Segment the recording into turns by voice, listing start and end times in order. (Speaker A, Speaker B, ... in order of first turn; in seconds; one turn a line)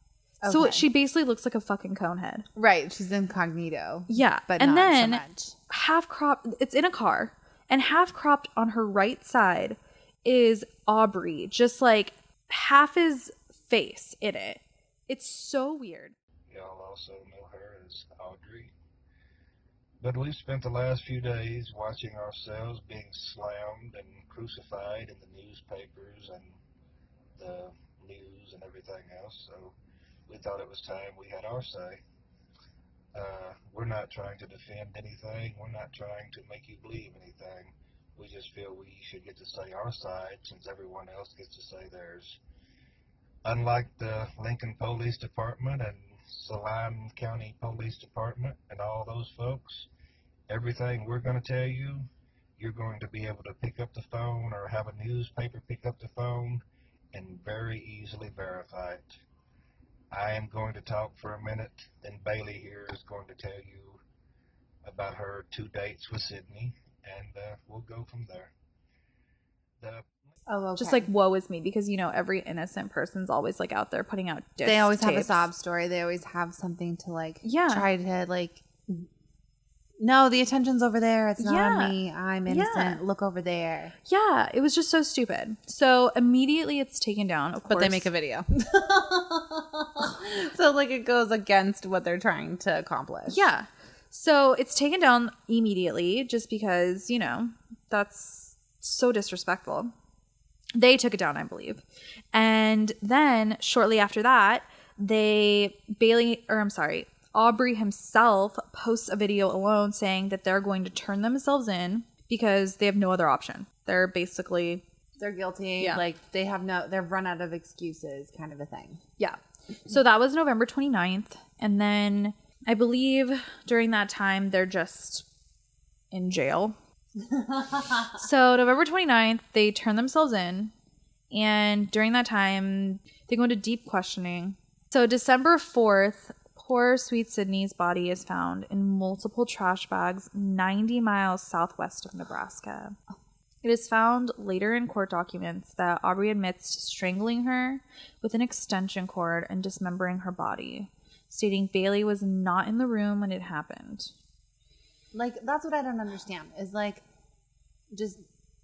Speaker A: 0.4-0.8
Speaker B: 0.5-2.5
Speaker A: 2.5-5.6
Speaker B: 4.1-16.1
Speaker C: 16.5-18.7
Speaker C: 20.0-26.5
Speaker C: 27.4-29.7
Speaker C: 30.3-32.0
Speaker C: 33.1-42.4
Speaker C: 43.5-49.9
Speaker C: 50.5-52.0
Speaker C: 52.6-56.6
Speaker C: 57.1-59.1
Speaker C: 60.1-64.0
Speaker C: 64.8-68.5
Speaker C: 69.8-70.1
Speaker A: 70.5-71.1
Speaker B: 70.8-75.5
Speaker A: 74.6-79.1
Speaker B: 77.4-77.9
Speaker A: 80.0-83.9
Speaker B: 81.4-83.0
Speaker B: 84.1-88.1
Speaker A: 87.7-93.5
Speaker B: 93.3-99.9
Speaker B: 100.8-114.8
Speaker A: 115.2-119.0
Speaker B: 119.2-125.3
Speaker B: 126.1-126.8
Speaker A: 127.2-128.2
Speaker B: 128.2-130.7
Speaker B: 131.3-143.0
Speaker B: 143.6-154.1
Speaker A: 155.1-157.0
Speaker A: 157.9-158.2